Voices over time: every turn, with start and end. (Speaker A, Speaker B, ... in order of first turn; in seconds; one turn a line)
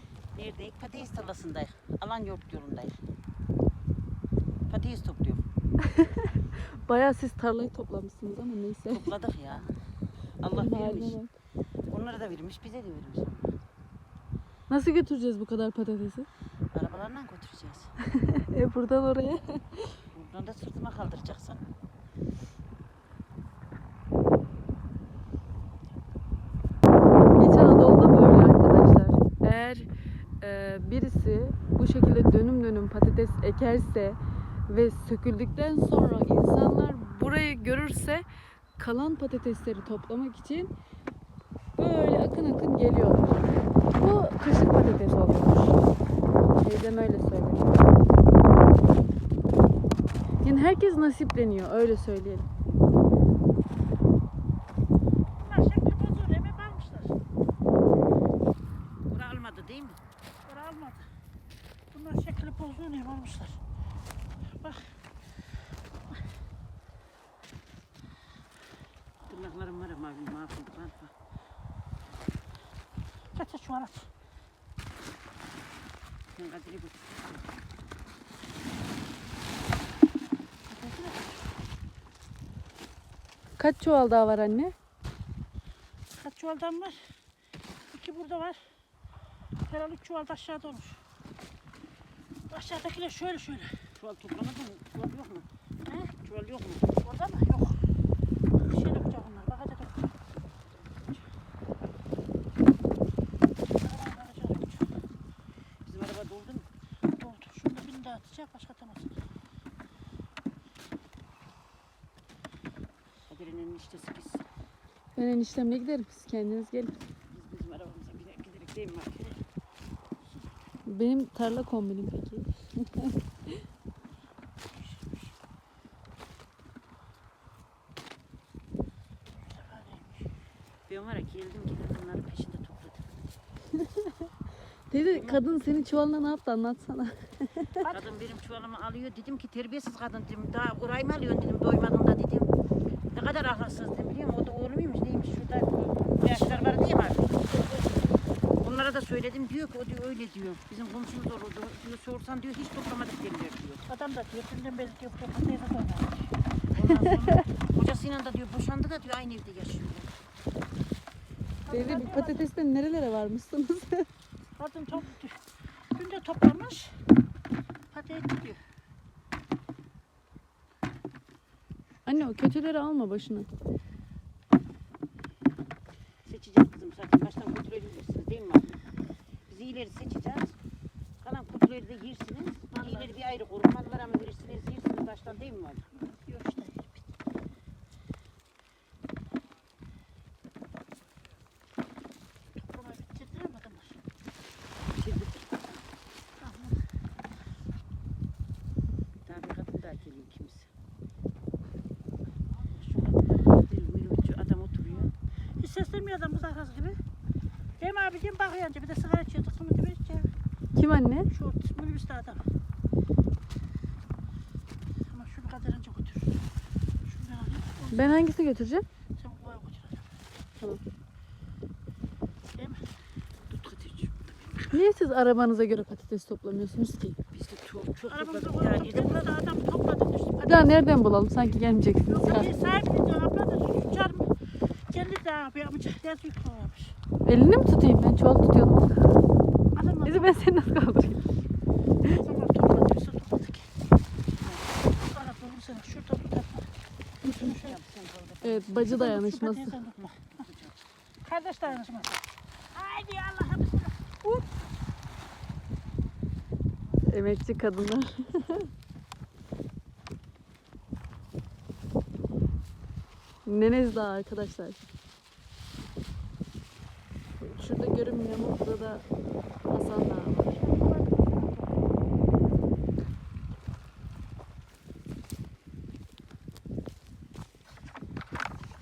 Speaker A: 0.3-3.0
Speaker A: 4.7-5.4
Speaker B: 5.8-9.1
Speaker A: 8.9-9.7
Speaker A: 10.4-11.2
Speaker B: 10.5-11.3
Speaker A: 11.9-13.5
Speaker B: 14.7-16.3
Speaker A: 16.7-17.9
Speaker B: 18.0-20.0
Speaker A: 20.1-21.6
Speaker B: 27.4-29.9
Speaker B: 30.4-38.2
Speaker B: 38.8-40.7
Speaker B: 41.8-45.7
Speaker B: 46.6-47.8
Speaker B: 50.4-52.5
Speaker C: 55.4-57.1
Speaker A: 59.1-60.0
Speaker C: 60.4-61.0
Speaker C: 61.9-63.6
Speaker C: 64.6-64.9
Speaker A: 69.2-71.1
Speaker C: 73.3-74.1
Speaker A: 76.3-77.4
Speaker C: 80.7-81.4
Speaker B: 83.6-84.7
Speaker C: 86.1-87.0
Speaker C: 87.9-88.6
Speaker C: 89.7-91.0
Speaker C: 92.5-93.8
Speaker A: 94.0-95.5
Speaker C: 95.9-96.1
Speaker A: 96.1-96.9
Speaker C: 97.0-97.8
Speaker C: 98.5-100.1
Speaker A: 100.7-101.2
Speaker C: 103.7-104.8
Speaker A: 105.8-106.7
Speaker C: 107.1-109.1
Speaker A: 113.3-114.4
Speaker B: 115.2-116.9
Speaker A: 117.3-119.4
Speaker B: 120.8-123.2
Speaker C: 129.3-130.3
Speaker A: 130.9-133.1
Speaker B: 134.9-137.8
Speaker A: 135.0-135.5
Speaker A: 137.9-142.5
Speaker A: 143.1-147.5
Speaker A: 148.6-153.9
Speaker C: 153.9-156.3
Speaker A: 156.7-160.1
Speaker C: 156.9-157.3
Speaker C: 161.7-162.4
Speaker B: 161.7-164.1
Speaker C: 164.6-165.4
Speaker C: 165.9-167.0
Speaker C: 167.9-168.6
Speaker B: 172.1-173.5
Speaker A: 176.2-178.8
Speaker A: 179.5-180.5
Speaker A: 181.2-185.8
Speaker C: 182.7-183.2
Speaker C: 185.9-187.0
Speaker C: 192.5-194.0
Speaker A: 194.9-195.5
Speaker C: 196.4-196.8
Speaker A: 199.2-200.7
Speaker A: 202.9-205.1
Speaker C: 205.6-207.0
Speaker C: 207.8-210.3
Speaker B: 210.7-211.3
Speaker C: 211.3-212.4
Speaker C: 215.1-216.4
Speaker C: 217.1-218.2
Speaker B: 217.9-218.8
Speaker C: 219.2-220.1
Speaker C: 222.5-222.9
Speaker A: 223.5-224.8
Speaker B: 224.7-227.2
Speaker A: 227.3-229.4
Speaker C: 228.1-230.9
Speaker B: 230.4-232.5
Speaker C: 232.1-234.3
Speaker C: 234.9-236.9
Speaker B: 237.2-239.1
Speaker C: 239.7-240.4
Speaker B: 240.0-241.2
Speaker C: 242.0-243.7
Speaker A: 244.4-244.9
Speaker C: 245.0-246.7
Speaker C: 247.2-247.8
Speaker A: 247.3-248.8
Speaker B: 248.4-249.8
Speaker C: 248.8-249.9
Speaker A: 250.0-250.8
Speaker C: 251.2-254.4
Speaker B: 257.1-258.7
Speaker B: 263.4-264.8
Speaker B: 267.4-269.1
Speaker B: 269.7-270.5
Speaker C: 270.4-271.9